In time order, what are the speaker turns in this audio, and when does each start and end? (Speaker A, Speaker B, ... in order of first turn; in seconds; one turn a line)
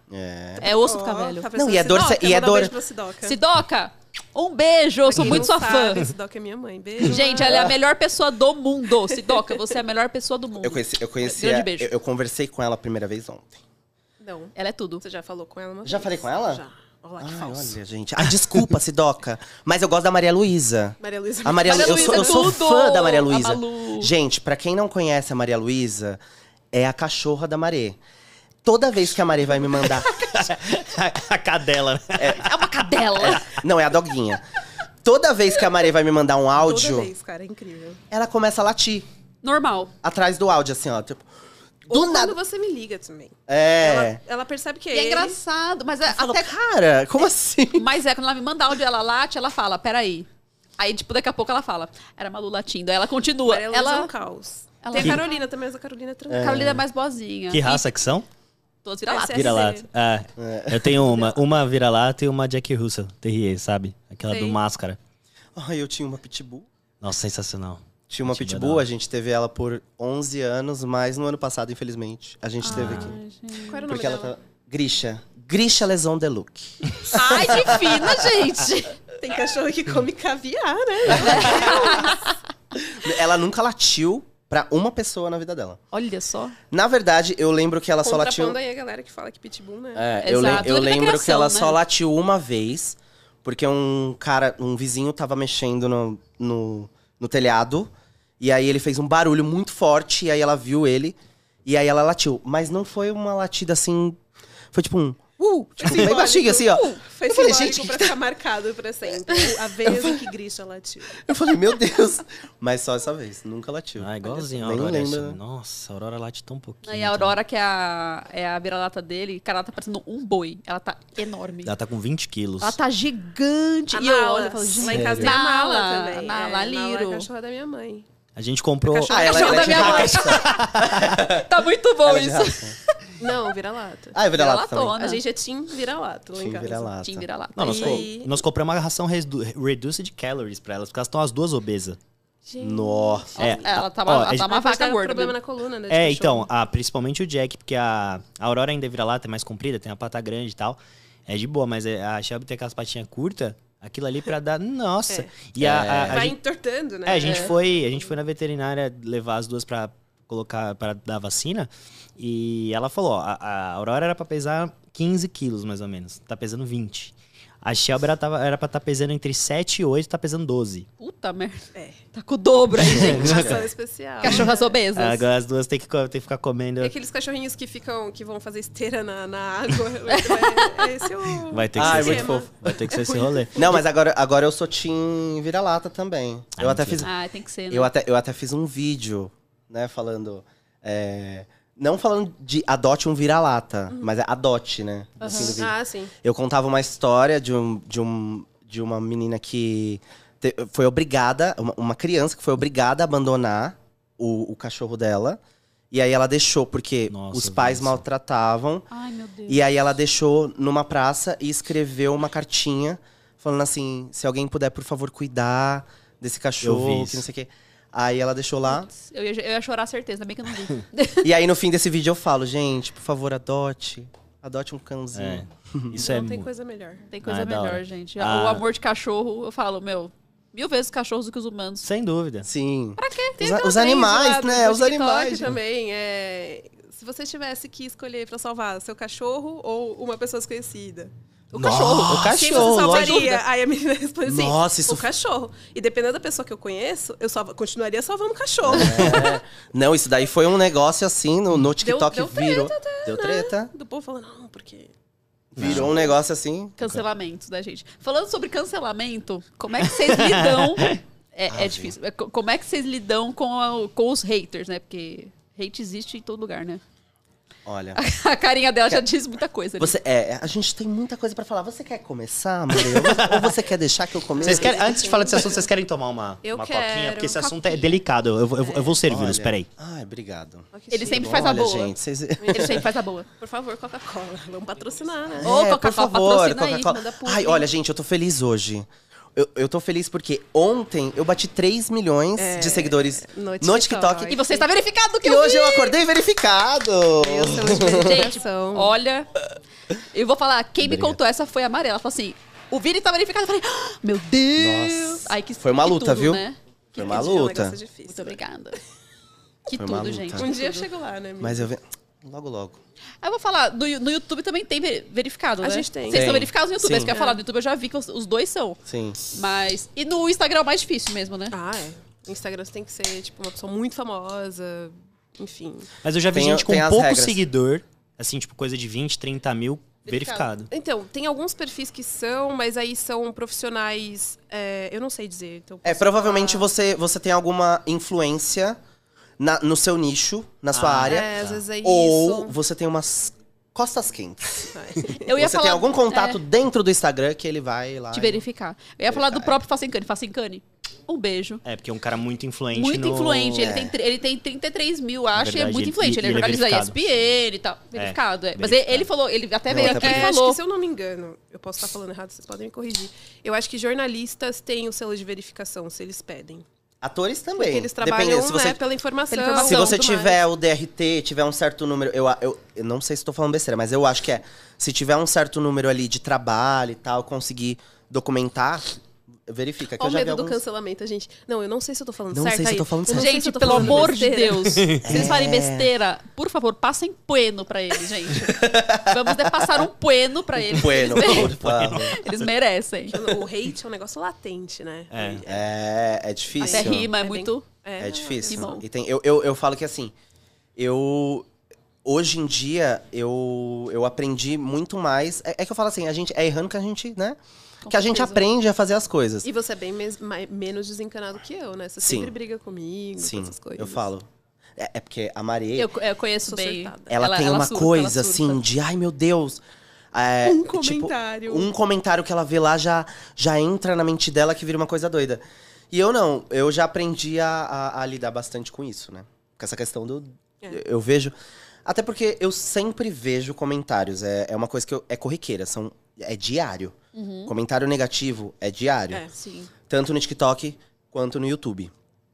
Speaker A: 0.1-0.7
Speaker B: 0.6-3.4
Speaker C: 0.6-1.5
Speaker A: 1.6-2.7
Speaker C: 3.2-6.1
Speaker B: 5.1-7.7
Speaker C: 7.0-11.9
Speaker A: 7.4-7.8
Speaker A: 10.6-13.6
Speaker B: 14.2-17.8
Speaker C: 14.6-15.0
Speaker A: 15.8-16.6
Speaker A: 17.2-26.2
Speaker B: 21.0-22.5
Speaker C: 21.7-24.1
Speaker A: 26.7-28.0
Speaker A: 28.6-30.3
Speaker D: 30.3-32.6
Speaker A: 32.2-32.5
Speaker C: 32.4-33.5
Speaker A: 33.2-34.4
Speaker A: 35.0-37.1
Speaker B: 36.6-38.0
Speaker A: 38.1-39.1
Speaker C: 39.4-39.9
Speaker A: 40.0-41.2
Speaker A: 41.9-42.4
Speaker B: 41.9-45.4
Speaker A: 43.5-44.2
Speaker C: 44.9-46.5
Speaker A: 46.1-47.9
Speaker C: 47.8-50.3
Speaker C: 50.8-54.1
Speaker B: 53.5-56.7
Speaker C: 54.8-55.3
Speaker A: 56.3-56.8
Speaker C: 56.4-57.9
Speaker D: 57.5-58.3
Speaker C: 58.8-59.7
Speaker B: 59.1-59.9
Speaker D: 59.3-65.0
Speaker A: 60.4-61.1
Speaker B: 64.3-64.6
Speaker A: 65.5-66.7
Speaker D: 67.0-68.9
Speaker A: 68.1-73.2
Speaker C: 72.6-73.8
Speaker D: 72.7-73.1
Speaker B: 73.7-74.3
Speaker A: 73.9-78.2
Speaker C: 77.1-79.0
Speaker B: 79.2-82.3
Speaker C: 81.1-82.3
Speaker A: 81.1-82.0
Speaker A: 82.9-85.8
Speaker C: 85.9-86.6
Speaker A: 86.7-88.6
Speaker B: 88.0-90.6
Speaker A: 90.0-104.2
Speaker C: 90.2-91.8
Speaker A: 104.7-108.1
Speaker B: 105.4-111.3
Speaker C: 106.7-107.0
Speaker A: 109.8-110.2
Speaker A: 111.2-115.4
Speaker D: 114.0-117.4
Speaker C: 116.8-121.7
Speaker D: 121.7-122.8
Speaker C: 122.6-127.3
Speaker B: 123.9-128.1
Speaker A: 124.9-125.3
Speaker D: 124.9-125.3
Speaker D: 128.4-129.2
Speaker B: 128.8-130.4
Speaker C: 129.1-133.0
Speaker A: 129.1-131.5
Speaker D: 130.3-131.2
Speaker A: 132.0-132.8
Speaker B: 133.2-134.2
Speaker A: 134.2-135.0
Speaker C: 134.3-135.2
Speaker B: 134.9-136.9
Speaker A: 136.4-137.3
Speaker C: 137.0-138.1
Speaker D: 137.6-142.0
Speaker B: 137.6-138.4
Speaker B: 142.5-143.4
Speaker A: 142.6-143.4
Speaker C: 143.4-145.4
Speaker D: 143.4-144.5
Speaker B: 144.4-146.5
Speaker D: 145.9-156.4
Speaker A: 155.6-156.3
Speaker B: 156.0-157.9
Speaker D: 157.1-170.9
Speaker C: 171.0-173.6
Speaker D: 172.8-173.5
Speaker B: 172.9-174.7
Speaker A: 173.0-173.6
Speaker C: 174.2-175.2
Speaker D: 174.2-176.9
Speaker B: 176.8-183.8
Speaker C: 180.1-180.9
Speaker D: 181.5-183.8
Speaker A: 181.8-182.5
Speaker A: 183.6-187.1
Speaker D: 186.6-187.1
Speaker C: 187.0-187.9
Speaker A: 187.7-195.7
Speaker C: 195.2-195.6
Speaker B: 195.2-196.1
Speaker A: 196.2-205.4
Speaker A: 205.9-208.9
Speaker D: 207.1-208.0
Speaker C: 208.9-209.6
Speaker A: 209.5-218.9
Speaker D: 216.6-217.3
Speaker C: 218.7-221.3
Speaker A: 221.2-226.0
Speaker D: 225.1-226.5
Speaker B: 226.0-227.1
Speaker C: 227.1-231.9
Speaker D: 227.2-228.6
Speaker D: 231.8-232.5
Speaker A: 232.4-235.5
Speaker C: 233.0-233.4
Speaker B: 233.3-241.1
Speaker C: 241.5-243.4
Speaker A: 241.6-243.3
Speaker B: 242.1-249.4
Speaker A: 244.3-245.1
Speaker A: 248.7-253.7
Speaker D: 248.7-249.3
Speaker B: 251.8-254.9
Speaker A: 255.6-256.8
Speaker D: 255.6-255.9
Speaker B: 255.7-256.1
Speaker C: 256.8-266.8
Speaker D: 260.0-261.0
Speaker A: 261.5-261.9
Speaker A: 267.7-268.0
Speaker C: 268.0-269.9
Speaker A: 269.8-274.9
Speaker D: 272.9-273.5
Speaker B: 274.4-275.7
Speaker D: 274.4-279.7
Speaker B: 276.4-278.0
Speaker B: 278.6-279.0
Speaker A: 279.1-282.8
Speaker B: 280.7-281.6
Speaker C: 280.9-281.9
Speaker B: 282.4-285.5
Speaker C: 282.5-283.3
Speaker A: 285.4-294.4
Speaker C: 285.4-287.0
Speaker B: 286.9-287.7
Speaker B: 292.4-294.7
Speaker C: 294.3-295.9
Speaker A: 295.2-298.2
Speaker B: 297.2-298.9
Speaker C: 297.9-299.3
Speaker C: 300.1-307.4
Speaker A: 300.8-301.2
Speaker A: 304.6-306.4
Speaker A: 306.9-307.8
Speaker B: 307.0-308.4
Speaker C: 308.1-308.8
Speaker C: 309.7-310.9
Speaker A: 309.8-310.5
Speaker B: 310.4-311.7
Speaker A: 311.4-312.8
Speaker C: 313.2-318.8
Speaker B: 315.6-316.5
Speaker A: 316.1-317.1
Speaker B: 317.1-317.4
Speaker A: 318.9-319.2
Speaker C: 319.3-321.6
Speaker B: 321.5-325.9
Speaker D: 326.0-330.7
Speaker A: 326.3-327.4
Speaker B: 330.1-336.7
Speaker A: 335.9-338.8
Speaker A: 339.4-344.7
Speaker D: 340.7-341.6
Speaker B: 341.1-342.6
Speaker B: 344.7-345.3
Speaker C: 345.1-346.4
Speaker A: 345.3-348.4
Speaker C: 348.1-351.6
Speaker A: 349.1-349.6
Speaker D: 351.6-353.8
Speaker C: 352.7-360.6
Speaker A: 353.6-353.9
Speaker D: 355.4-357.0
Speaker D: 357.9-359.1
Speaker A: 359.7-360.3
Speaker B: 359.8-366.6
Speaker A: 367.0-368.8
Speaker B: 367.6-370.4
Speaker C: 369.3-370.0
Speaker A: 369.6-378.9
Speaker A: 379.5-380.6
Speaker B: 380.0-384.8
Speaker A: 382.3-384.1
Speaker C: 383.1-393.2
Speaker D: 384.8-385.2
Speaker A: 385.0-385.9
Speaker A: 388.4-389.9
Speaker A: 390.6-392.2
Speaker D: 391.1-392.5
Speaker B: 393.1-395.7
Speaker D: 395.1-395.4
Speaker A: 395.5-397.1
Speaker B: 396.6-398.8
Speaker C: 396.6-397.7
Speaker A: 398.0-400.1
Speaker C: 398.5-398.8
Speaker A: 400.8-401.5
Speaker A: 402.1-409.5
Speaker C: 407.8-408.5
Speaker B: 409.4-414.1
Speaker A: 412.0-412.3
Speaker A: 413.2-414.3
Speaker A: 414.8-415.9
Speaker C: 415.8-418.6
Speaker B: 416.4-417.1
Speaker A: 417.1-419.6
Speaker A: 420.1-431.4
Speaker B: 420.4-421.7
Speaker A: 431.9-437.0
Speaker C: 437.1-437.5
Speaker A: 437.5-439.2
Speaker C: 439.3-439.7
Speaker A: 439.9-441.9